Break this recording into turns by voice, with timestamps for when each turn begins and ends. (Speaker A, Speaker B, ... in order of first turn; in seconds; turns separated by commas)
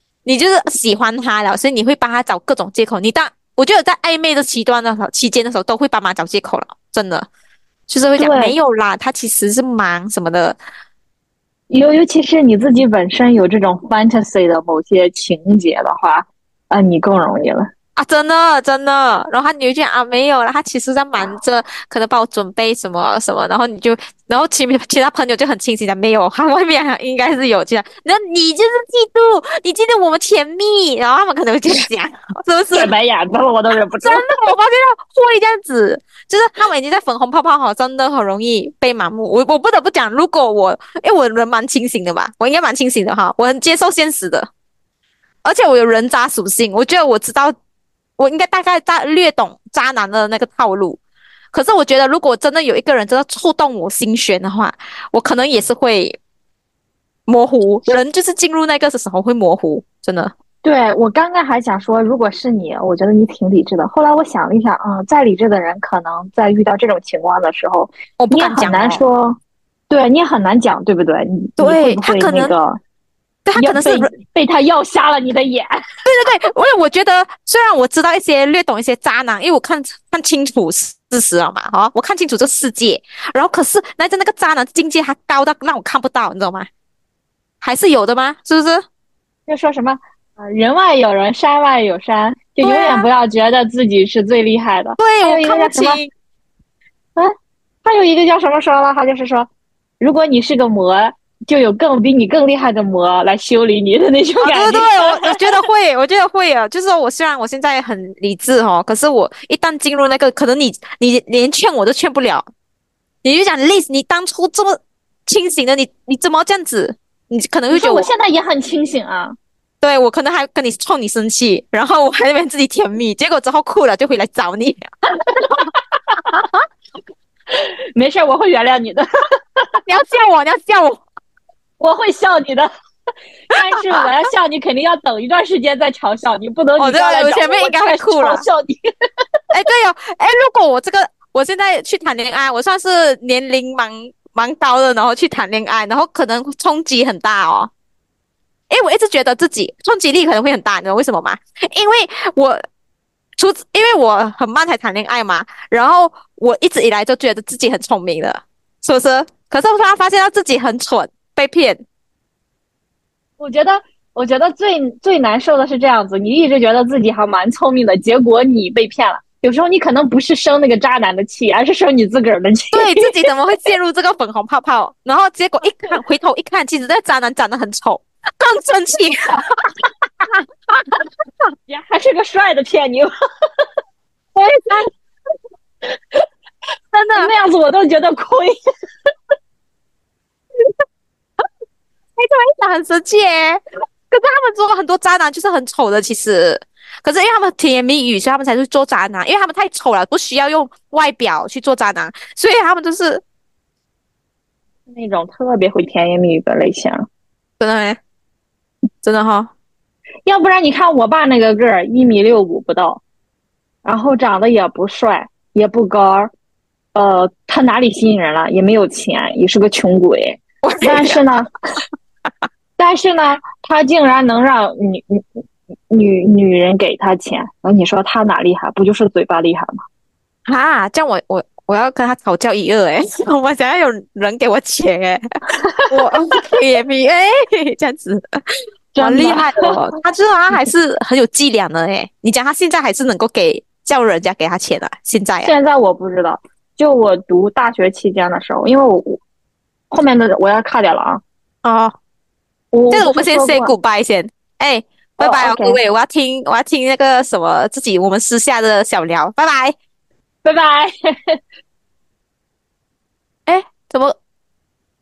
Speaker A: 0.2-7.3, Speaker A: 7.9-10.6, Speaker B: 8.2-8.6, Speaker B: 11.7-17.7, Speaker A: 18.0-32.9, Speaker B: 32.7-34.2, Speaker A: 34.0-44.5, Speaker A: 45.4-47.5, Speaker A: 48.2-51.0, Speaker A: 51.5-56.2, Speaker A: 57.3-60.3, Speaker B: 60.6-69.4, Speaker A: 68.2-69.0, Speaker B: 69.9-72.8, Speaker A: 71.6-72.5, Speaker A: 73.5-74.1, Speaker B: 73.6-75.8, Speaker A: 76.1-86.7, Speaker A: 87.6-88.8, Speaker B: 89.5-96.0, Speaker A: 92.6-93.1, Speaker A: 95.0-96.1, Speaker B: 97.8-99.5, Speaker B: 100.0-105.6, Speaker A: 104.4-112.5, Speaker A: 113.2-118.1, Speaker B: 117.7-119.3, Speaker A: 119.8-124.8, Speaker B: 125.3-125.5, Speaker B: 127.5-129.1, Speaker A: 129.9-131.0, Speaker B: 131.8-132.7, Speaker B: 133.5-138.8, Speaker A: 133.6-134.1, Speaker A: 136.8-138.4, Speaker A: 139.5-147.7, Speaker A: 148.7-152.6, Speaker A: 153.4-161.8, Speaker B: 163.4-173.1, Speaker A: 172.7-179.7, Speaker B: 181.7-183.1, Speaker A: 184.4-184.9, Speaker A: 186.9-187.3, Speaker B: 187.2-188.6, Speaker A: 192.2-203.2, Speaker B: 204.9-207.1, Speaker A: 207.6-208.0, Speaker A: 209.0-209.5, Speaker B: 210.3-213.0, Speaker B: 213.8-216.3, Speaker B: 216.9-221.5, Speaker A: 220.6-221.2, Speaker B: 222.8-229.8, Speaker A: 230.5-235.2, Speaker A: 235.9-238.4, Speaker B: 238.9-239.8, Speaker A: 239.0-245.5, Speaker B: 245.4-249.2, Speaker B: 249.9-251.2, Speaker A: 251.6-252.0, Speaker B: 252.7-253.7, Speaker A: 252.9-259.7, Speaker B: 255.2-255.8, Speaker B: 260.4-261.4, Speaker A: 263.5-264.2